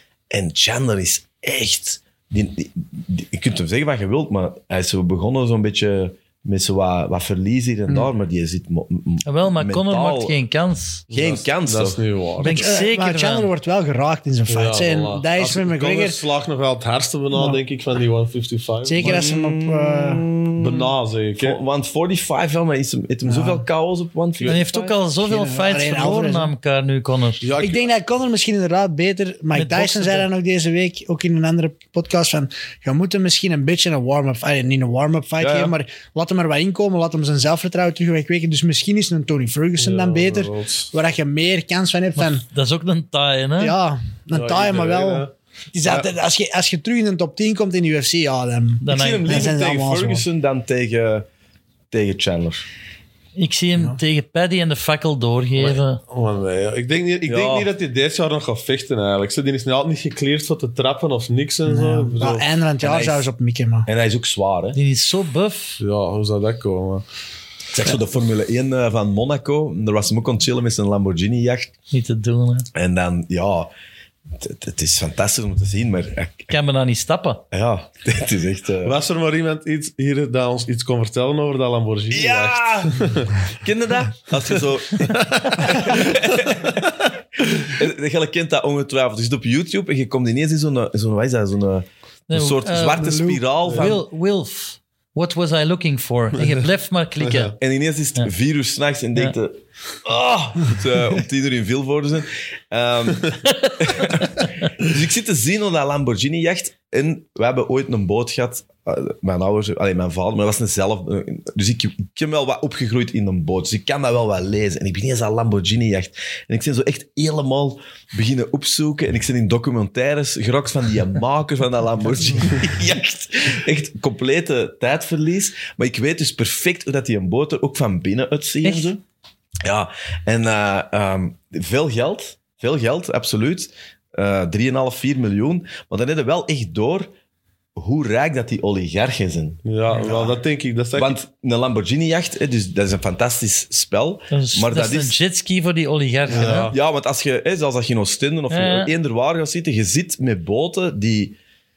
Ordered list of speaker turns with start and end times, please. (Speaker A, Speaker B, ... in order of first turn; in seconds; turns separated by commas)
Speaker A: 0.3-10.3, Speaker B: 9.2-11.1, Speaker C: 11.1-12.7, Speaker A: 11.1-12.0, Speaker B: 12.4-13.5, Speaker D: 12.5-16.2, Speaker C: 14.5-19.2, Speaker D: 17.3-17.6, Speaker D: 18.8-20.2, Speaker A: 19.0-24.6, Speaker C: 20.6-21.6, Speaker D: 23.2-23.6, Speaker B: 24.4-27.4, Speaker D: 24.8-26.5, Speaker C: 27.4-27.9, Speaker D: 27.6-42.4, Speaker B: 29.5-30.3, Speaker A: 35.4-35.8, Speaker C: 39.8-40.9, Speaker B: 42.2-43.8, Speaker D: 43.6-50.2, Speaker C: 44.3-45.3, Speaker C: 45.8-46.1, Speaker B: 48.8-49.5, Speaker A: 48.9-51.3, Speaker A: 51.9-52.7, Speaker B: 53.4-56.0, Speaker C: 55.6-62.5, Speaker A: 57.3-57.7, Speaker D: 61.7-63.9, Speaker A: 62.8-63.3, Speaker A: 63.9-64.8, Speaker B: 64.7-65.8, Speaker C: 65.8-67.0, Speaker A: 67.7-71.7, Speaker B: 71.9-72.7, Speaker A: 72.7-73.7, Speaker A: 74.4-76.5, Speaker B: 76.5-77.4, Speaker A: 77.5-79.0, Speaker C: 78.8-83.4, Speaker A: 82.1-94.0, Speaker C: 85.2-86.1, Speaker B: 92.3-97.5, Speaker D: 93.0-93.3, Speaker C: 93.7-93.9, Speaker C: 97.2-97.5, Speaker A: 97.6-129.0, Speaker B: 103.5-104.1, Speaker B: 128.6-128.9, Speaker A: 129.6-137.1, Speaker A: 137.8-140.2, Speaker C: 139.7-141.2, Speaker D: 140.0-140.3, Speaker A: 140.9-145.2, Speaker B: 144.3-146.7, Speaker C: 146.3-146.8, Speaker A: 146.7-151.4, Speaker B: 148.5-148.9